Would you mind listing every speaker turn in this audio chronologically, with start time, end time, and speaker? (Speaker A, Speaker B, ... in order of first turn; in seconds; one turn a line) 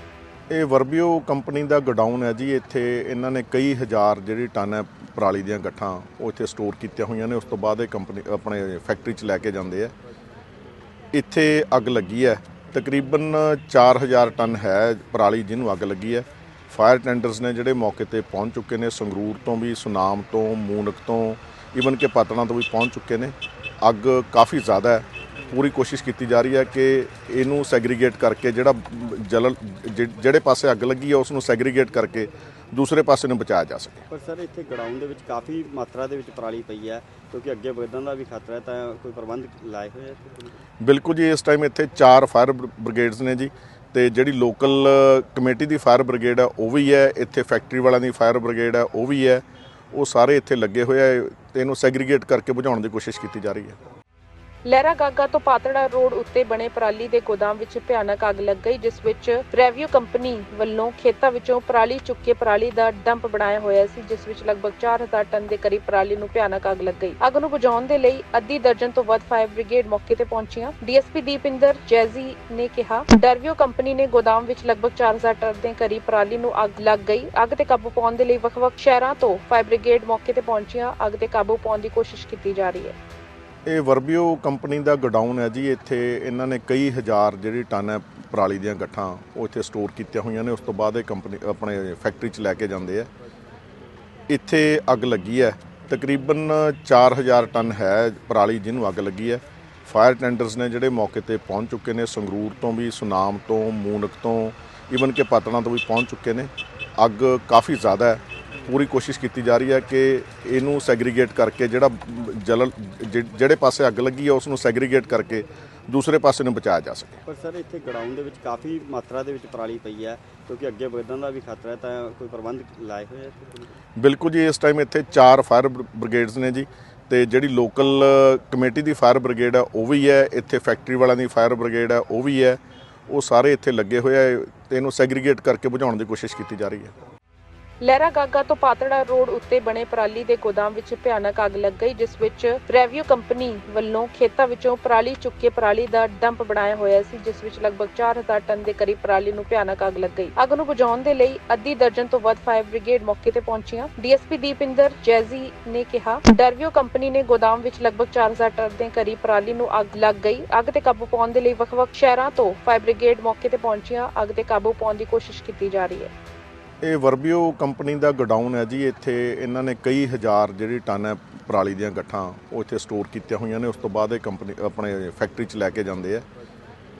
Speaker A: 0.5-9.9
Speaker A: 11.1-34.0
Speaker B: 34.1-40.5
Speaker A: 40.8-53.8
Speaker C: 54.6-83.0
Speaker A: 83.7-93.1
Speaker A: 94.3-117.2
Speaker B: 117.2-123.7
Speaker A: 124.0-136.9
Speaker C: 137.8-166.1
Speaker A: 166.8-176.2